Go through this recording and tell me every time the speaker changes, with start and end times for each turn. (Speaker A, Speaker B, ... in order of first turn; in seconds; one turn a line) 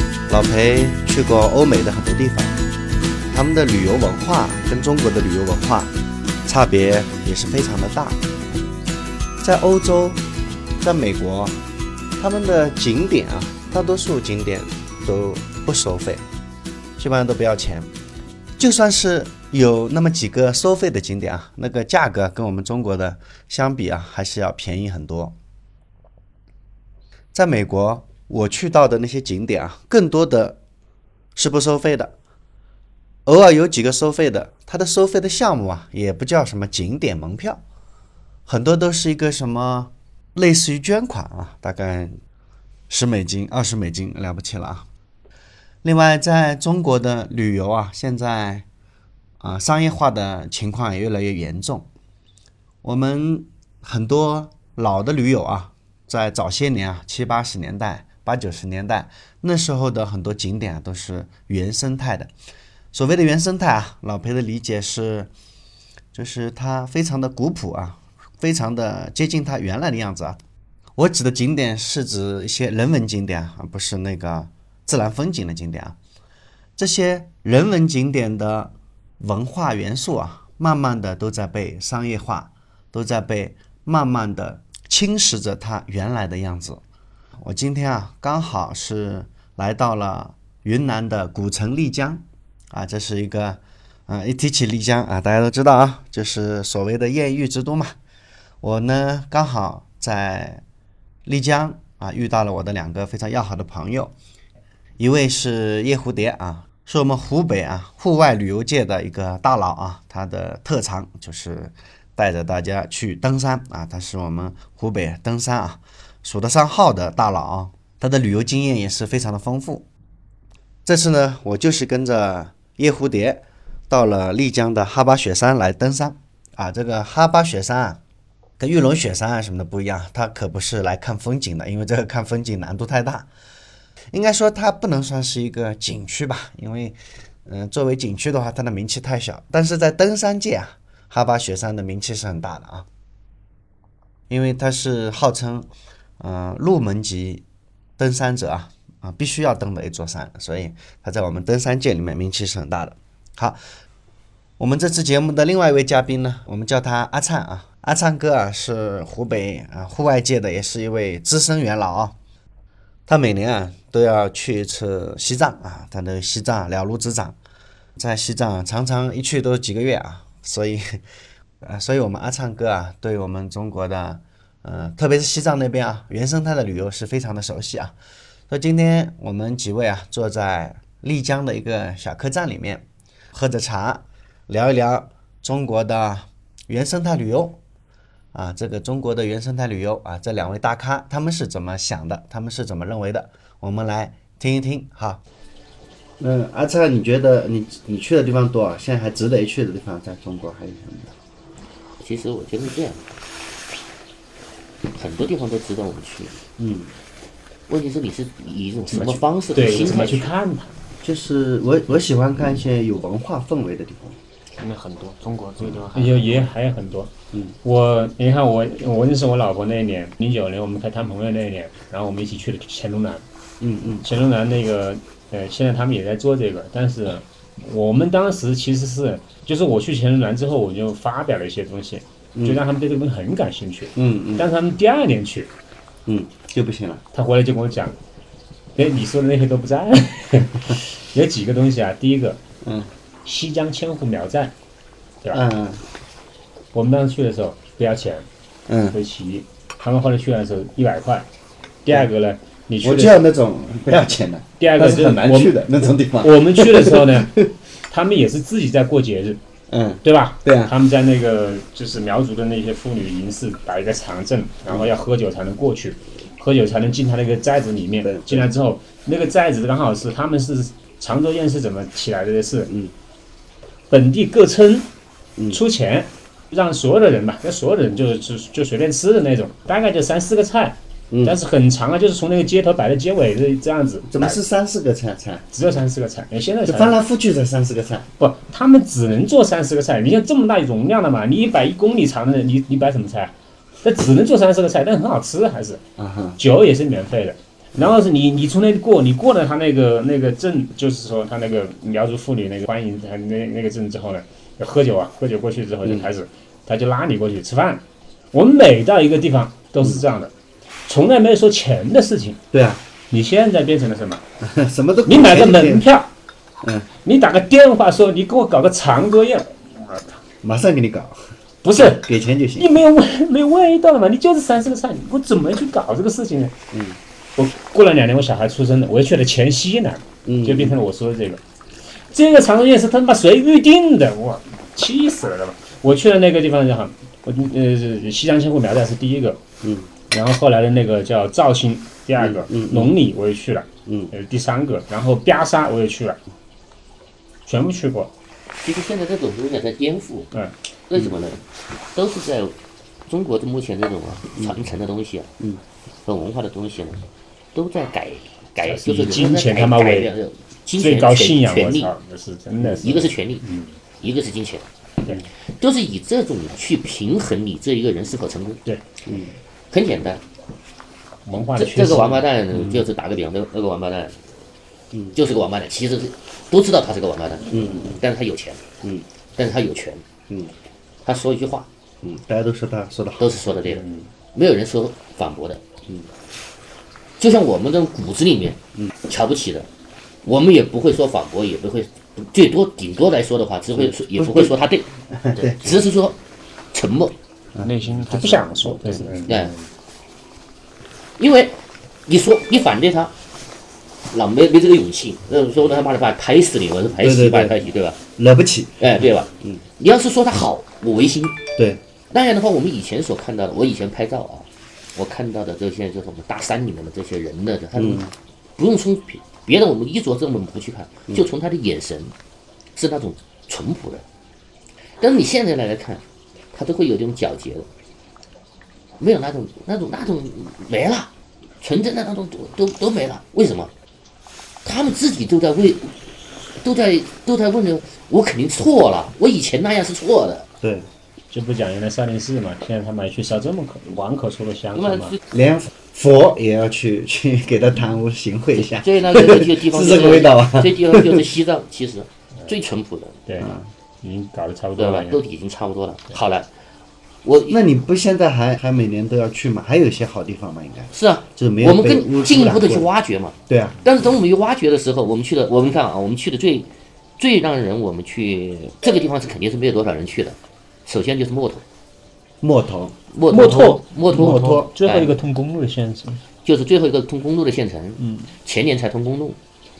Speaker A: 0.3-2.6
Speaker A: 3.3-5.9
Speaker A: 6.4-8.2
Speaker A: 9.4-10.2
Speaker A: 10.8-11.6
Speaker A: 12.2-16.2
Speaker A: 17.0-17.9
Speaker A: 18.6-25.3
Speaker A: 27.3-30.6
Speaker A: 31.4-32.1
Speaker A: 33.2-37.6
Speaker A: 38.5-42.2
Speaker A: 42.9-44.9
Speaker A: 45.8-48.6
Speaker A: 49.4-51.9
Speaker A: 52.8-62.3
Speaker A: 62.9-65.3
Speaker A: 66.1-70.4
Speaker A: 71.0-76.0
Speaker A: 76.8-86.8
Speaker A: 87.4-97.9
Speaker A: 98.6-100.6
Speaker A: 101.2-104.1
Speaker A: 105.0-119.8
Speaker A: 120.8-128.0
Speaker A: 128.6-133.3
Speaker A: 134.1-142.9
Speaker A: 144.3-147.4
Speaker A: 148.0-153.6
Speaker A: 154.6-162.1
Speaker A: 163.1-167.3
Speaker A: 167.9-171.0
Speaker A: 171.6-177.9
Speaker A: 178.5-187.6
Speaker A: 188.3-195.2
Speaker A: 196.2-201.1
Speaker B: 202.0-203.1
Speaker B: 204.9-206.4
Speaker A: 206.6-206.9
Speaker B: 207.7-210.3
Speaker C: 208.9-210.7
Speaker A: 211.0-214.2
Speaker D: 214.6-216.5
Speaker C: 215.9-217.1
Speaker C: 217.6-223.2
Speaker A: 223.6-224.0
Speaker C: 224.0-235.5
Speaker A: 233.9-234.5
Speaker A: 236.1-237.0
Speaker C: 237.1-237.9
Speaker C: 238.8-242.4
Speaker A: 242.6-242.9
Speaker C: 243.2-244.5
Speaker A: 245.3-245.8
Speaker C: 246.7-248.3
Speaker A: 248.7-249.0
Speaker C: 248.9-251.3
Speaker C: 251.8-253.2
Speaker A: 252.8-257.5
Speaker C: 254.6-255.6
Speaker C: 256.2-259.4
Speaker A: 259.7-260.7
Speaker C: 260.0-272.7
Speaker A: 268.0-268.5
Speaker C: 273.9-274.9
Speaker C: 275.5-284.4
Speaker A: 281.1-281.4
Speaker A: 284.1-285.4
Speaker C: 285.5-287.0
Speaker A: 286.6-288.1
Speaker C: 288.2-295.8
Speaker A: 296.0-296.4
Speaker C: 296.4-310.3
Speaker C: 310.9-312.4
Speaker A: 312.5-312.8
Speaker C: 313.1-314.2
Speaker A: 314.4-315.9
Speaker C: 315.1-316.1
Speaker A: 316.6-316.9
Speaker C: 317.0-320.2
Speaker A: 320.4-321.2
Speaker C: 321.6-326.5
Speaker A: 321.8-322.7
Speaker A: 326.7-327.0
Speaker C: 327.4-331.4
Speaker A: 330.2-330.8
Speaker C: 332.1-339.4
Speaker A: 339.6-339.9
Speaker C: 340.1-346.2
Speaker A: 342.2-342.9
Speaker A: 343.9-344.1
Speaker C: 347.4-348.1
Speaker B: 348.6-350.3
Speaker B: 350.9-351.4
Speaker B: 351.9-352.6
Speaker B: 353.1-355.3
Speaker B: 356.0-361.9
Speaker C: 358.6-360.1
Speaker C: 360.8-363.8
Speaker B: 362.8-363.4
Speaker B: 364.0-364.7
Speaker B: 365.6-368.6
Speaker A: 369.0-369.3
Speaker B: 369.7-370.2
Speaker C: 371.2-372.2
Speaker B: 371.6-374.2
Speaker A: 372.5-372.8
Speaker A: 374.9-375.2
Speaker B: 375.1-378.6
Speaker A: 377.5-378.0
Speaker B: 379.4-380.0
Speaker B: 381.0-381.7
Speaker A: 382.0-383.4
Speaker B: 383.2-385.6
Speaker C: 383.7-384.1
Speaker B: 387.2-389.7
Speaker B: 390.2-394.9
Speaker A: 393.8-394.5
Speaker A: 395.1-395.6
Speaker B: 395.5-396.2
Speaker B: 396.7-397.1
Speaker D: 397.6-399.1
Speaker C: 398.1-399.6
Speaker B: 399.3-399.5
Speaker B: 401.2-403.1
Speaker B: 404.1-408.0
Speaker A: 407.0-407.6
Speaker A: 408.2-409.6
Speaker B: 408.8-411.4
Speaker A: 411.6-411.8
Speaker B: 412.1-418.0
Speaker A: 417.7-418.1
Speaker B: 418.6-422.1
Speaker B: 422.7-424.0
Speaker B: 425.0-427.7
Speaker B: 429.0-433.7
Speaker B: 434.6-435.9
Speaker B: 436.6-440.5
Speaker A: 440.6-440.9
Speaker C: 441.3-445.1
Speaker B: 444.8-445.2
Speaker A: 445.3-451.3
Speaker B: 448.6-453.2
Speaker C: 453.2-455.2
Speaker A: 453.4-453.7
Speaker B: 454.8-456.5
Speaker B: 457.2-457.6
Speaker A: 457.5-462.9
Speaker B: 460.9-471.6
Speaker A: 463.5-463.8
Speaker A: 472.4-472.9
Speaker B: 473.1-475.1
Speaker C: 473.3-476.2
Speaker A: 474.1-474.7
Speaker B: 476.4-479.4
Speaker C: 478.0-478.3